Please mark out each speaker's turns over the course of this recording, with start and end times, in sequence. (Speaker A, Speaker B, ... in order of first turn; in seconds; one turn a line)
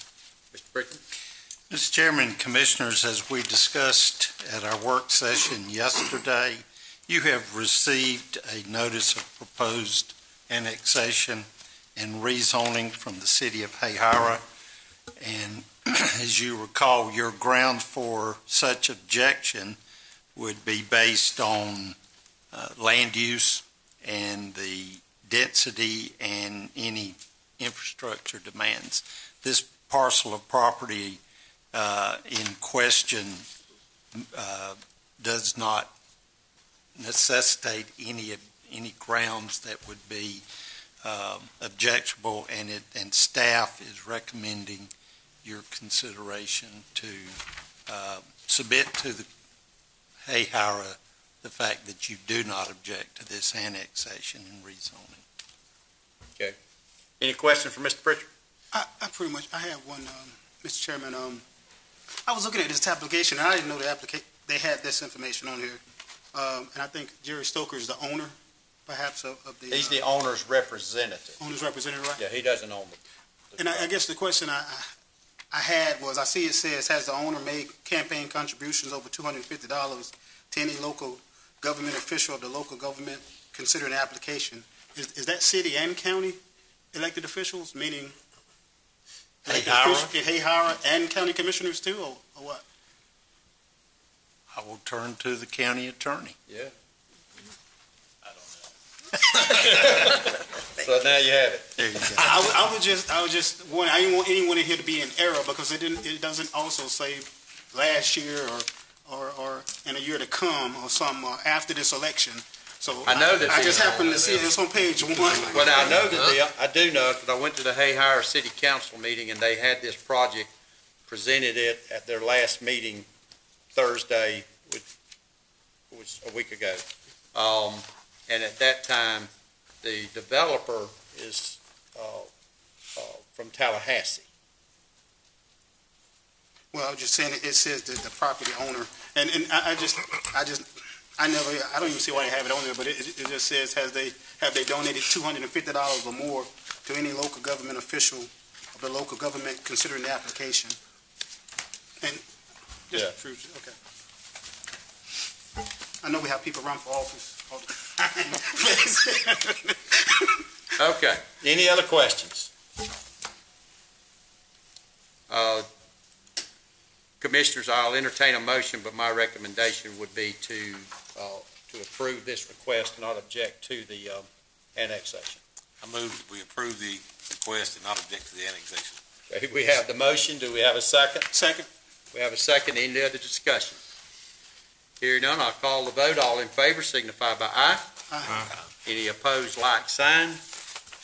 Speaker A: 0.5-1.0
Speaker B: 1.7-14.4
Speaker B: 15.2-19.8
Speaker B: 20.4-22.0
Speaker B: 22.5-31.2
Speaker B: 31.7-33.5
Speaker B: 34.1-35.9
Speaker B: 37.0-40.5
Speaker B: 41.0-44.9
Speaker B: 45.4-49.3
Speaker B: 50.2-55.2
Speaker A: 57.2-58.3
Speaker C: 58.7-61.4
Speaker C: 62.3-65.8
Speaker C: 66.3-68.3
Speaker C: 68.9-70.0
Speaker A: 69.7-71.4
Speaker C: 71.4-72.2
Speaker A: 72.2-73.0
Speaker A: 73.5-73.9
Speaker C: 73.6-74.9
Speaker C: 75.5-86.4
Speaker C: 86.9-88.2
Speaker C: 89.5-92.6
Speaker B: 89.5-90.1
Speaker B: 94.5-96.4
Speaker A: 99.2-101.7
Speaker B: 101.8-102.3
Speaker C: 102.2-116.1
Speaker A: 113.1-114.5
Speaker D: 113.3-113.7
Speaker A: 115.4-120.5
Speaker A: 121.1-123.1
Speaker A: 123.7-124.8
Speaker A: 125.9-126.8
Speaker A: 127.3-129.3
Speaker A: 129.8-132.3
Speaker A: 133.0-134.3
Speaker C: 136.7-140.7
Speaker C: 141.2-150.8
Speaker C: 152.9-153.8
Speaker C: 156.0-160.4
Speaker A: 160.8-162.5
Speaker A: 165.3-165.7
Speaker A: 167.2-175.4
Speaker D: 175.8-179.0
Speaker A: 179.3-181.3
Speaker C: 181.3-181.7
Speaker A: 182.1-183.8
Speaker A: 185.0-187.8
Speaker C: 188.1-188.5
Speaker A: 188.8-190.4